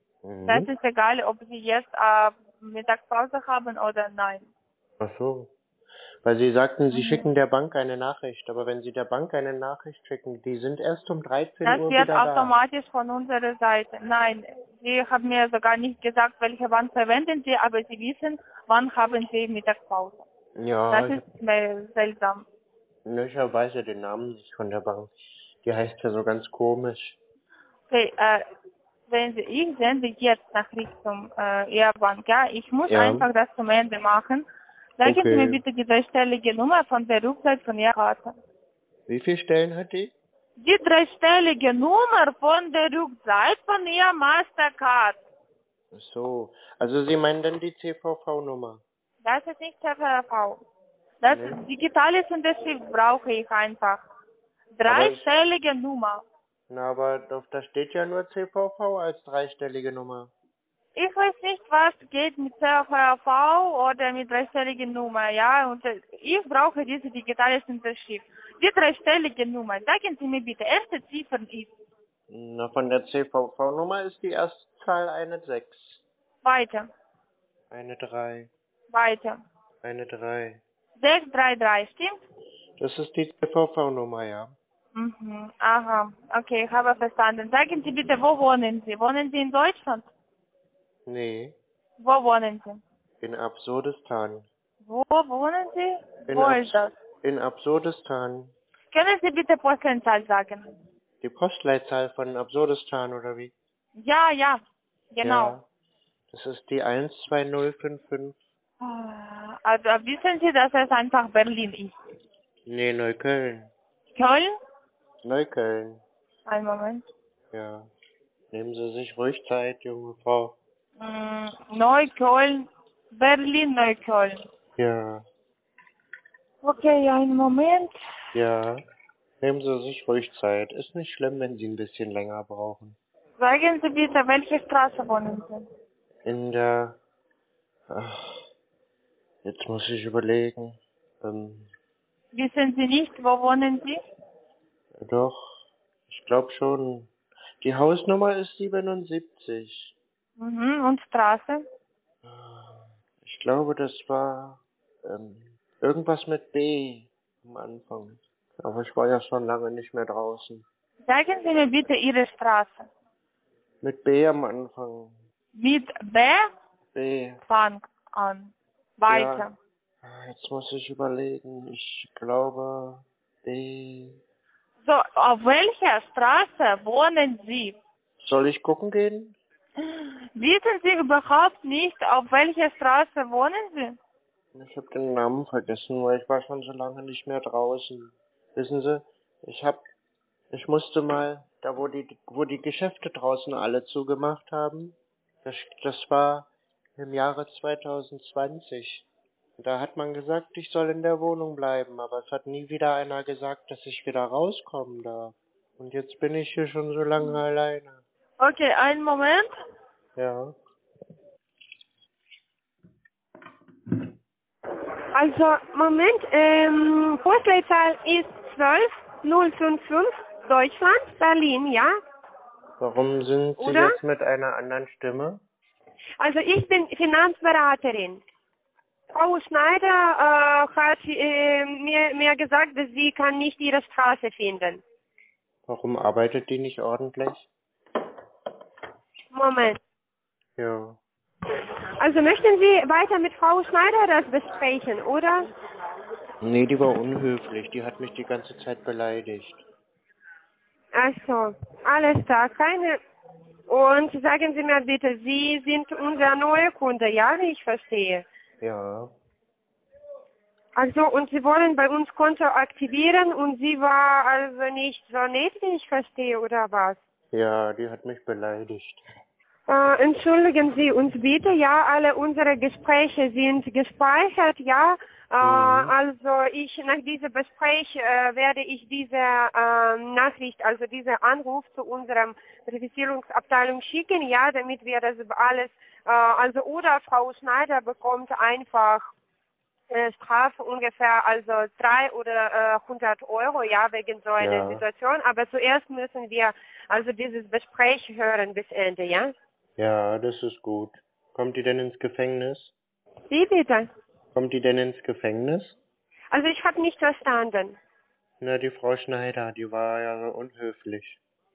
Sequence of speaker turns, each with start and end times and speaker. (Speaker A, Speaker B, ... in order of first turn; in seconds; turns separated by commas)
Speaker A: 0.2-0.7, Speaker B: 0.5-4.5, Speaker A: 5.0-5.5, Speaker A: 6.2-12.5, Speaker B: 6.9-7.2, Speaker B: 11.6-20.2, Speaker A: 20.6-21.2, Speaker B: 20.9-22.4, Speaker A: 23.1-25.1, Speaker A: 25.6-27.2, Speaker B: 27.9-28.4, Speaker B: 29.1-34.5, Speaker A: 32.9-33.3, Speaker B: 35.0-38.4, Speaker A: 35.0-35.6, Speaker A: 39.1-40.1, Speaker B: 40.6-45.2, Speaker A: 45.9-48.8, Speaker B: 49.2-50.6, Speaker B: 51.2-54.0, Speaker A: 51.3-51.6, Speaker B: 54.7-56.2, Speaker A: 54.9-55.2, Speaker A: 56.7-60.3, Speaker B: 61.0-71.7, Speaker A: 72.3-76.0, Speaker B: 76.4-76.9, Speaker A: 77.7-78.5, Speaker B: 78.9-79.4, Speaker A: 79.8-80.6, Speaker B: 81.0-82.2, Speaker A: 82.8-84.5, Speaker B: 84.9-90.0, Speaker A: 91.1-91.5, Speaker B: 92.0-92.8, Speaker A: 93.2-94.5, Speaker B: 94.8-96.9, Speaker A: 96.3-98.5, Speaker B: 98.9-100.7, Speaker A: 101.2-103.5, Speaker B: 104.0-104.6, Speaker B: 105.1-105.6, Speaker A: 105.2-105.6, Speaker A: 106.3-108.3, Speaker B: 108.8-111.9, Speaker A: 112.7-113.7, Speaker B: 114.1-114.5, Speaker A: 115.2-116.0, Speaker B: 116.5-117.0, Speaker A: 117.5-117.9, Speaker A: 118.5-120.6, Speaker B: 121.0-124.4, Speaker A: 124.8-125.2, Speaker B: 126.6-127.9, Speaker A: 128.3-128.8, Speaker A: 129.4-133.0, Speaker B: 133.4-135.7, Speaker A: 136.2-137.0, Speaker A: 137.9-138.4, Speaker A: 139.4-141.7, Speaker B: 142.3-144.0, Speaker A: 145.0-147.1, Speaker A: 147.6-149.9, Speaker B: 150.4-151.6, Speaker A: 152.2-160.6, Speaker B: 161.1-162.9, Speaker A: 163.8-165.2, Speaker B: 165.5-166.4, Speaker A: 166.9-167.4, Speaker B: 167.5-169.5, Speaker A: 169.1-169.4, Speaker A: 170.0-174.2, Speaker B: 174.8-177.8, Speaker A: 178.2-179.3, Speaker B: 179.8-184.0, Speaker A: 184.5-189.8, Speaker A: 190.5-199.1, Speaker A: 199.6-208.0, Speaker B: 208.4-209.5, Speaker A: 210.2-210.5, Speaker C: 215.1-221.9, Speaker A: 222.8-225.4, Speaker C: 223.6-224.0, Speaker C: 226.2-228.2, Speaker C: 229.1-234.8, Speaker A: 235.7-237.5, Speaker C: 239.3-239.8, Speaker A: 240.6-241.0, Speaker C: 242.0-245.4, Speaker A: 246.4-249.6, Speaker C: 250.9-253.0, Speaker C: 253.7-258.2, Speaker A: 258.6-259.1, Speaker C: 260.7-267.0, Speaker A: 267.3-269.0, Speaker C: 269.7-289.1, Speaker A: 275.4-275.9, Speaker C: 289.9-299.3, Speaker A: 294.4-294.8, Speaker A: 299.8-302.7, Speaker C: 303.3-303.9, Speaker A: 304.3-305.8, Speaker C: 306.3-307.8, Speaker A: 308.4-311.2